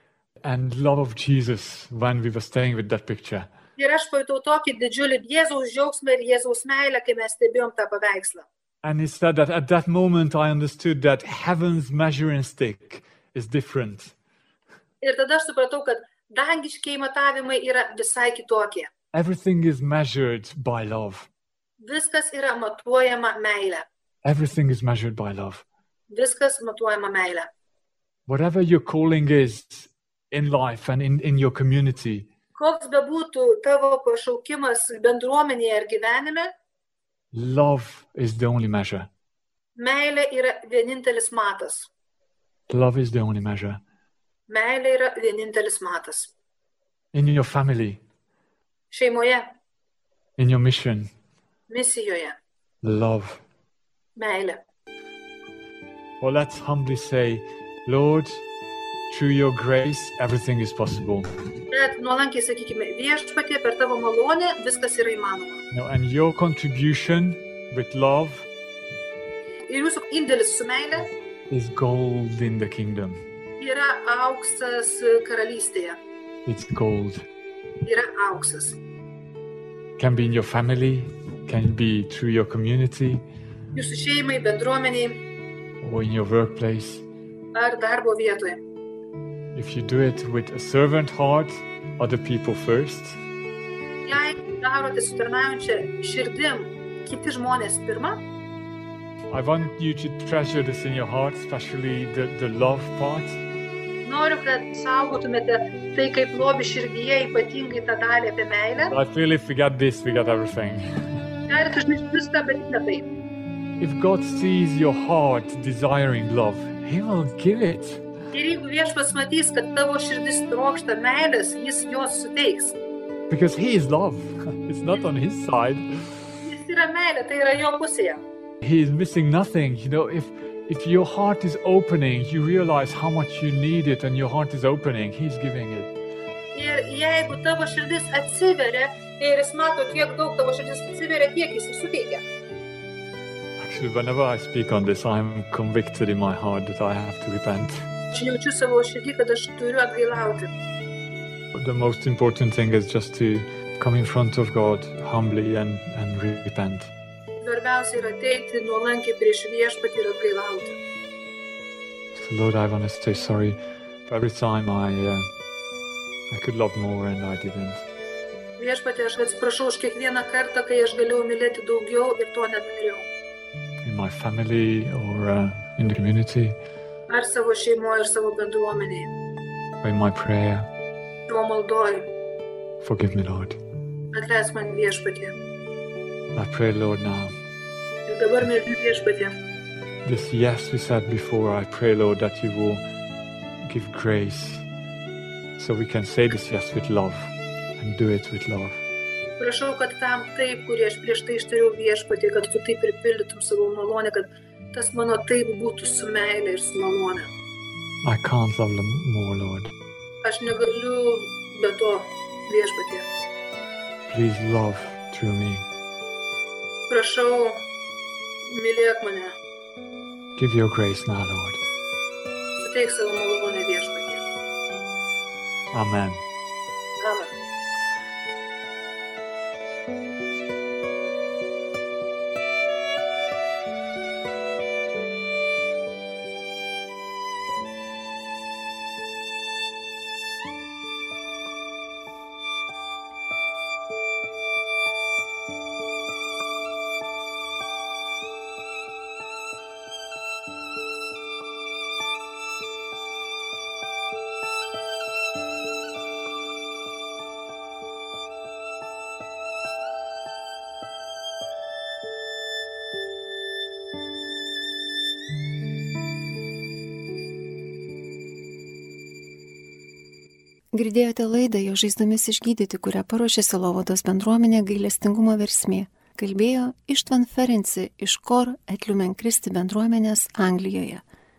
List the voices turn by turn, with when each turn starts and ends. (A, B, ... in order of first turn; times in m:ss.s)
0:00.4-0:03.5 A
0:03.8-0:08.5 B
0:08.8-0:14.1 A
0:15.0-0:18.9 B
0:19.1-0:21.3 A
0:21.8-0:23.8 B
0:24.2-0:25.6 A
0:26.1-0:27.5 B
0:28.3-0:32.3 A
0:32.6-0:36.5 B
0:37.3-0:39.1 A
0:39.8-0:41.9 B
0:42.7-0:43.8 A
0:44.5-0:46.3 B
0:47.1-0:48.0 A
0:48.9-0:49.5 B
0:50.4-0:51.1 A
0:51.7-0:52.4 B
0:52.8-0:53.4 A
0:54.2-0:54.6 B
0:56.2-0:58.4 A
0:59.1-1:01.3 A
1:01.7-1:05.6 B
1:05.7-1:08.5 A
1:09.7-1:11.1 B
1:11.5-1:13.2 A
1:13.6-1:16.0 B
1:16.5-1:17.3 A
1:17.8-1:18.8 B
1:20.0-1:23.2 A
1:23.7-1:25.2 B
1:25.8-1:27.1 A
1:27.5-1:28.6 B
1:29.5-1:33.2 A
1:34.0-1:38.2 B
1:39.3-1:43.4 A
1:44.0-1:49.0 B
1:48.9-1:51.0 A
1:51.5-1:53.1 B
1:53.8-1:58.0 A
1:58.3-2:02.8 B
2:03.3-2:06.2 A
2:06.4-2:08.2 B
2:08.6-2:15.9 A
2:16.5-2:22.2 B
2:23.6-2:27.8 A
2:28.1-2:30.5 B
2:31.5-2:36.9 A
2:37.4-2:40.8 B
2:42.1-2:45.2 A
2:46.3-2:47.8 A
2:48.6-2:53.1 B
2:53.8-2:56.6 A
2:57.1-2:59.1 B
2:59.8-3:00.7 A
3:01.3-3:02.1 B
3:02.8-3:03.6 A
3:04.1-3:05.4 B
3:06.3-3:07.3 A
3:08.1-3:09.4 B
3:10.0-3:12.8 A
3:13.6-3:14.7 A
3:15.6-3:18.8 A
3:19.4-3:27.3 B
3:28.0-3:29.7 A
3:30.2-3:33.1 B
3:34.1-3:35.7 A
3:36.9-3:37.6 B
3:38.5-3:39.4 B
3:40.4-3:41.6 A
3:42.6-3:44.2 B
3:45.7-3:46.2 A
3:47.0-3:47.3 B
4:30.7-4:41.0 C